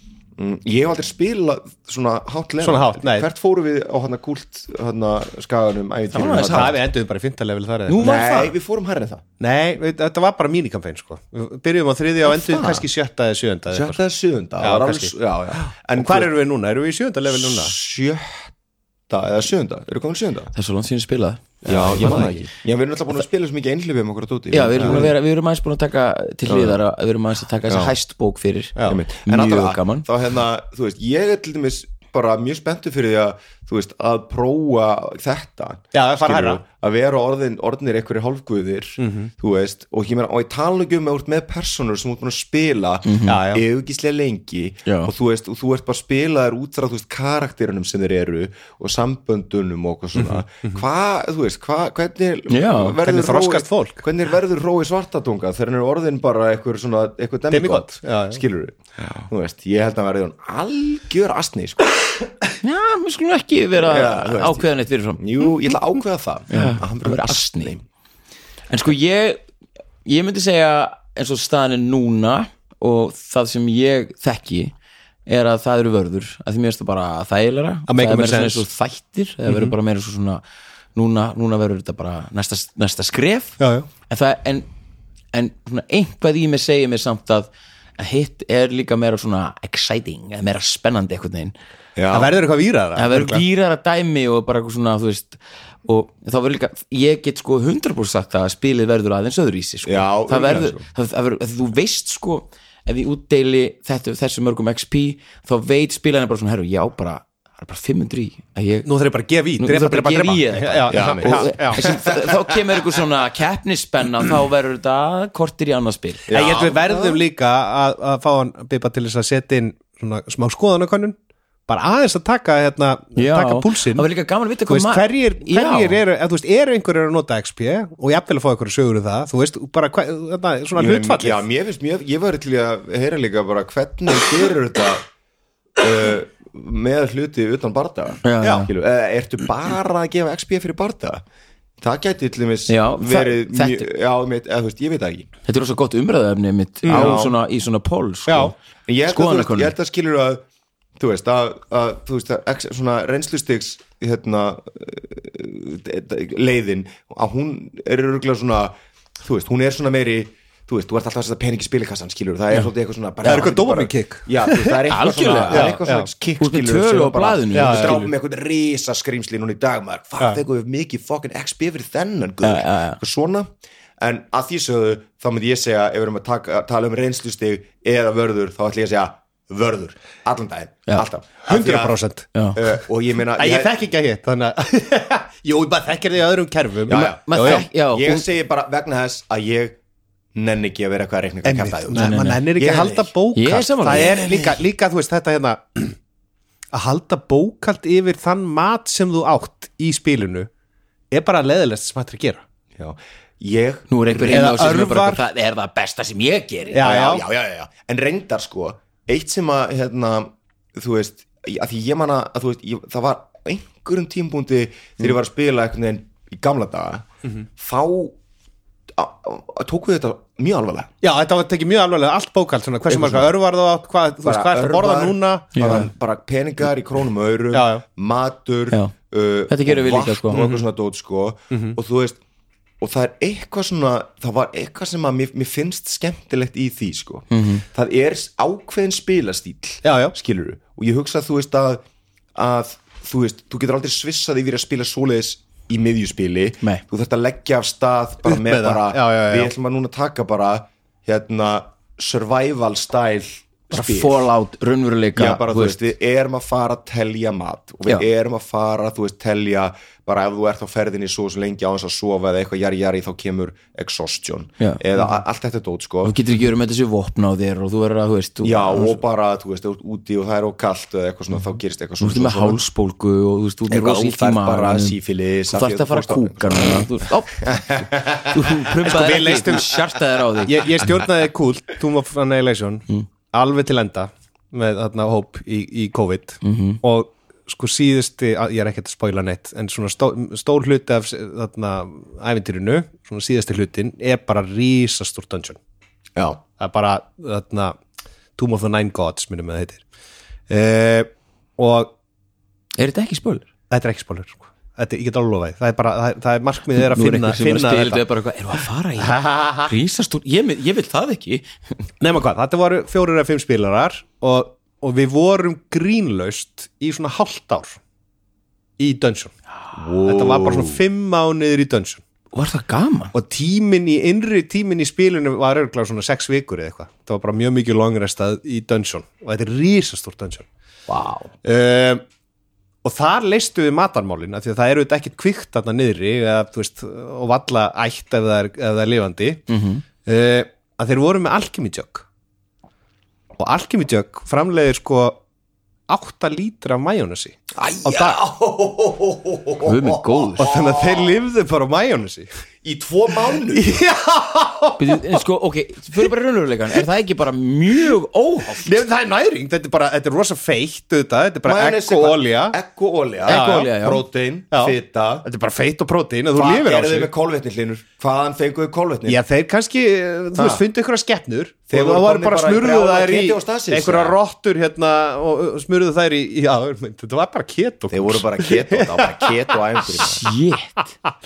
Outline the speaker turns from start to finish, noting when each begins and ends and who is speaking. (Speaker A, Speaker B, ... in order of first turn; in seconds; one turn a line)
Speaker A: 0.4-6.8
Speaker B: 2.6-3.3
Speaker C: 6.1-6.8
Speaker B: 6.5-8.2
Speaker C: 7.9-8.5
Speaker A: 8.0-9.2
Speaker B: 9.4-14.0
Speaker A: 12.2-12.9
Speaker A: 13.7-16.3
Speaker B: 14.6-17.7
Speaker A: 17.3-18.5
Speaker A: 19.1-20.5
Speaker C: 20.5-22.5
Speaker B: 21.6-22.4
Speaker A: 21.6-25.1
Speaker C: 24.5-30.1
Speaker A: 26.5-26.8
Speaker A: 27.7-27.9
Speaker A: 28.9-62.0
Speaker B: 35.9-36.6
Speaker B: 39.0-39.3
Speaker C: 43.0-43.4
Speaker B: 43.2-43.6
Speaker C: 44.9-45.1
Speaker C: 52.5-53.0
Speaker B: 53.0-54.0
Speaker B: 57.5-58.4
Speaker C: 62.6-65.5
Speaker A: 63.8-67.8
Speaker C: 66.5-67.7
Speaker C: 68.7-69.4
Speaker C: 70.0-74.7
Speaker C: 75.3-80.4
Speaker B: 77.9-78.6
Speaker B: 79.5-79.7
Speaker C: 80.9-84.7
Speaker B: 83.6-83.9
Speaker C: 85.3-91.5
Speaker A: 92.0-92.3
Speaker B: 92.1-93.4
Speaker C: 93.0-108.9
Speaker A: 99.8-100.8
Speaker B: 108.8-111.9
Speaker C: 109.6-116.3
Speaker A: 110.9-112.2
Speaker A: 116.3-117.2
Speaker B: 116.3-121.2
Speaker B: 121.7-124.1
Speaker C: 123.2-126.0
Speaker B: 124.7-131.4
Speaker A: 130.7-135.1
Speaker A: 135.8-141.2
Speaker C: 138.2-138.7
Speaker B: 138.4-138.7
Speaker A: 141.8-145.3
Speaker C: 142.7-143.9
Speaker C: 145.4-148.5
Speaker B: 146.8-147.2
Speaker A: 146.9-147.4
Speaker B: 148.3-148.5
Speaker A: 148.9-150.4
Speaker C: 149.1-149.7
Speaker A: 151.0-182.0
Speaker B: 163.2-164.8
Speaker C: 164.9-165.8
Speaker B: 165.5-166.1
Speaker C: 166.4-168.1
Speaker B: 167.5-168.1
Speaker C: 172.4-173.0
Speaker B: 181.5-182.3
Speaker C: 182.3-182.6
Speaker A: 182.6-183.7
Speaker B: 183.4-187.7
Speaker A: 186.9-189.8
Speaker C: 186.9-188.2
Speaker A: 190.3-193.1
Speaker B: 191.4-195.9
Speaker C: 191.9-192.4
Speaker C: 193.3-194.3
Speaker A: 193.8-194.5
Speaker B: 196.7-200.5
Speaker B: 201.1-202.4
Speaker A: 202.8-204.8
Speaker C: 203.9-206.8
Speaker B: 204.3-205.2
Speaker B: 206.7-207.2
Speaker A: 206.7-218.2
Speaker A: 218.9-220.9
Speaker B: 221.0-225.9
Speaker A: 222.9-223.3
Speaker A: 224.2-232.2
Speaker C: 225.5-225.9
Speaker B: 227.5-227.8
Speaker C: 229.5-230.4
Speaker B: 230.3-230.6
Speaker B: 231.5-231.8
Speaker A: 232.8-241.8
Speaker C: 237.3-237.6
Speaker B: 239.8-240.1
Speaker A: 242.3-254.2
Speaker B: 248.2-249.5
Speaker C: 253.7-255.8
Speaker A: 255.1-266.1
Speaker C: 264.6-265.2
Speaker C: 266.0-269.0
Speaker A: 268.4-272.6
Speaker C: 272.0-275.0
Speaker A: 273.7-278.6
Speaker C: 275.5-280.7
Speaker B: 278.8-279.7
Speaker A: 279.2-279.6
Speaker B: 280.4-295.6
Speaker C: 286.4-286.8
Speaker A: 296.1-296.4
Speaker B: 296.6-297.8
Speaker B: 298.4-299.8
Speaker B: 300.5-301.9
Speaker C: 302.8-303.5
Speaker B: 303.7-308.0
Speaker C: 306.8-311.5
Speaker B: 309.0-309.7
Speaker B: 312.0-317.8
Speaker B: 318.8-319.3
Speaker A: 319.7-320.8
Speaker B: 320.0-322.0
Speaker C: 322.3-323.1
Speaker B: 323.1-330.5
Speaker C: 330.9-331.3
Speaker B: 331.4-332.0
Speaker B: 332.8-339.4
Speaker C: 339.5-339.8
Speaker B: 340.0-342.0
Speaker B: 343.4-345.2
Speaker B: 345.9-348.2
Speaker A: 347.5-351.2
Speaker C: 349.6-350.5
Speaker B: 350.4-352.3
Speaker A: 352.6-353.8
Speaker B: 353.5-355.2
Speaker C: 354.8-358.7
Speaker B: 358.6-362.6
Speaker A: 361.4-365.2
Speaker C: 363.2-364.0
Speaker B: 363.3-363.7
Speaker B: 364.5-367.1
Speaker A: 366.3-369.2
Speaker B: 369.1-379.4
Speaker A: 370.4-370.6
Speaker A: 371.7-374.2
Speaker A: 377.9-380.2
Speaker C: 380.0-380.9